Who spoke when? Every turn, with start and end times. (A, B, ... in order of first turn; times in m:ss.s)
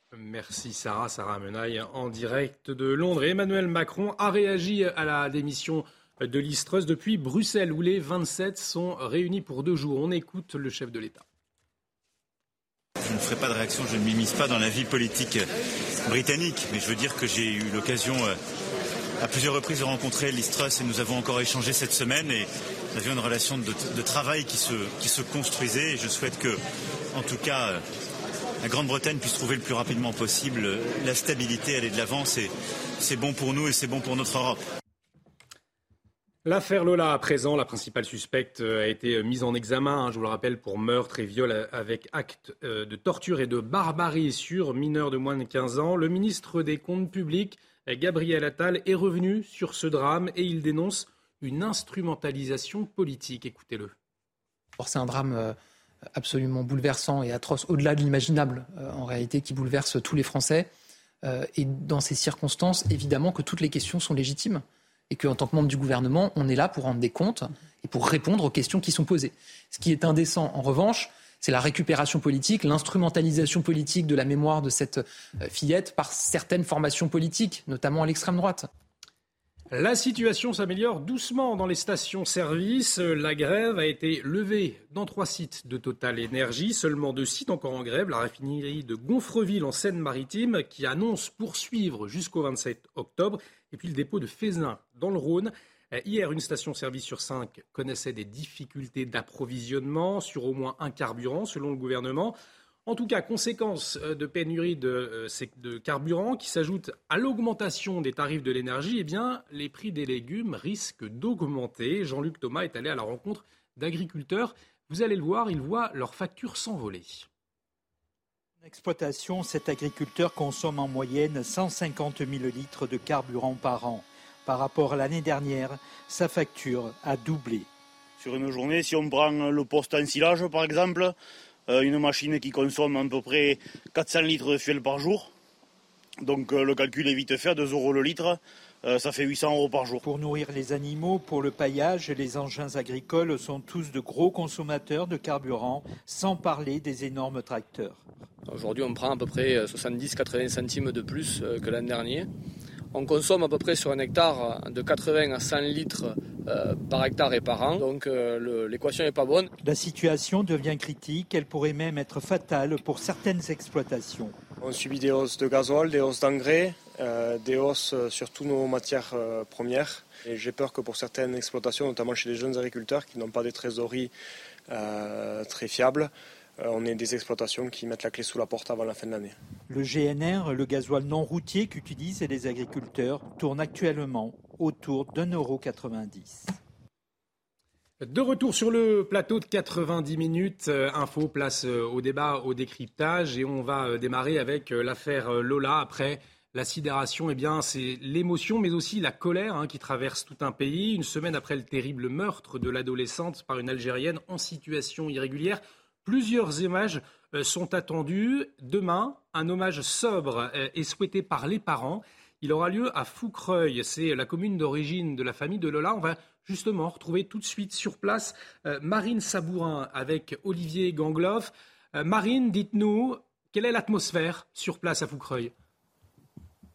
0:00.1-0:11.2 A
0:13.0-0:15.5 B
0:16.0-0:18.4 B
0:19.2-0:26.6 B
0:27.1-0:27.8 B
0:28.6-0:34.6 B
0:36.4-0:53.9 A
0:54.8-0:55.6 C
0:56.2-1:00.7 C
1:01.2-1:18.7 C
1:19.7-1:42.3 A
1:42.8-1:57.3 A
1:58.6-2:07.7 D
2:08.2-2:11.1 E
2:11.7-2:15.3 E
2:16.2-2:20.0 E
2:20.0-2:28.0 D
2:28.5-2:32.3 F
2:32.9-2:39.5 F
2:39.6-2:44.4 D
2:44.6-2:54.1 G
2:54.7-2:59.4 G
2:59.7-3:06.5 D
3:08.0-3:45.5 A